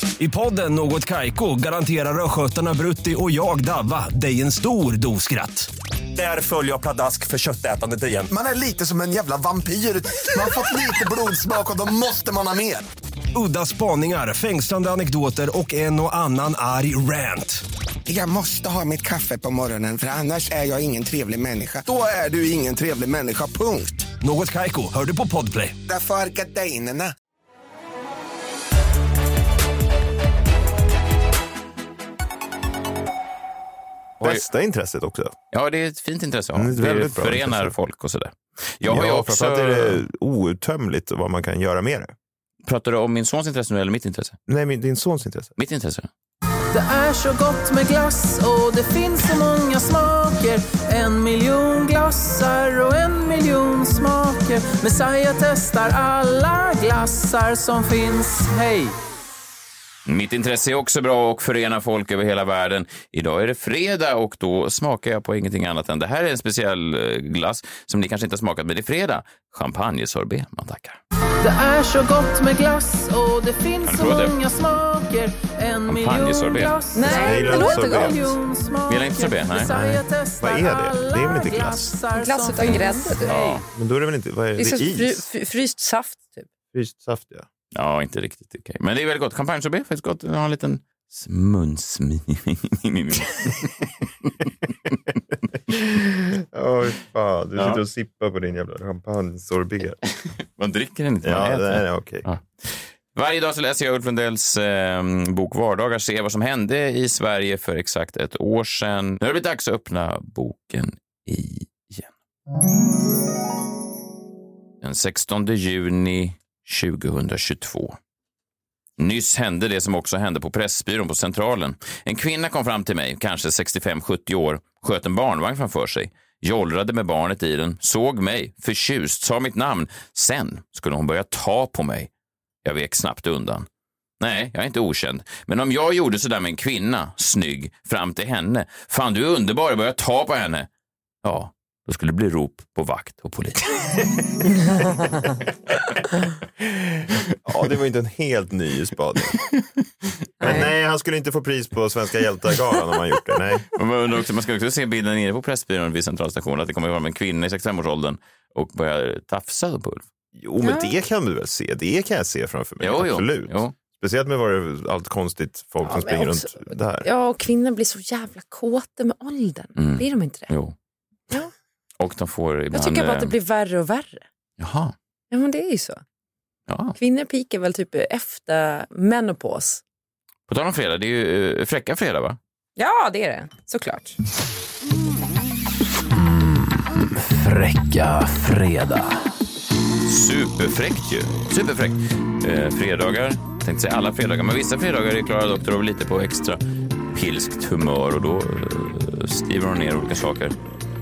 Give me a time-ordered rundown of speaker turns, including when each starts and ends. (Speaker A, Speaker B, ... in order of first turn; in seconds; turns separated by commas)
Speaker A: 0.2-5.7, Speaker A: 6.3-8.3, Speaker B: 8.3-12.9, Speaker A: 13.3-17.6, Speaker B: 18.1-24.1, Speaker A: 24.2-25.8, Speaker B: 25.9-27.1, Speaker C: 34.2-35.3, Speaker D: 35.5-40.0, Speaker C: 36.5-37.7, Speaker C: 38.9-42.1, Speaker D: 42.6-44.4, Speaker C: 44.5-45.5, Speaker D: 45.6-46.1, Speaker E: 46.7-59.0, Speaker D: 60.1-71.0, Speaker E: 71.4-83.6, Speaker D: 73.8-74.4, Speaker D: 75.9-76.8, Speaker F: 77.0-78.2, Speaker C: 77.2-78.3, Speaker D: 78.9-79.8, Speaker C: 79.7-82.0, Speaker F: 82.1-83.3, Speaker D: 83.3-83.6, Speaker C: 83.7-85.3, Speaker F: 84.6-86.5, Speaker C: 86.7-87.5, Speaker D: 87.8-94.3, Speaker C: 96.3-100.0, Speaker D: 100.2-112.1, Speaker C: 101.2-102.2, Speaker D: 114.8-118.0, Speaker D: 119.0-132.1, Speaker D: 132.7-133.7, Speaker D: 134.2-140.7, Speaker D: 141.2-145.0, Speaker C: 147.5-149.4, Speaker C: 150.4-153.7, Speaker D: 150.4-150.7, Speaker D: 153.7-160.1, Speaker C: 160.4-167.1, Speaker F: 160.6-160.9, Speaker D: 162.8-163.8, Speaker F: 165.8-170.5, Speaker D: 169.8-170.8, Speaker D: 172.0-173.3, Speaker F: 172.7-174.3, Speaker D: 174.6-174.9, Speaker F: 175.3-176.0, Speaker D: 176.7-177.0, Speaker F: 177.0-179.8, Speaker D: 180.5-182.4, Speaker F: 182.8-184.2, Speaker D: 186.2-189.3, Speaker D: 190.1-196.6, Speaker D: 197.1-200.6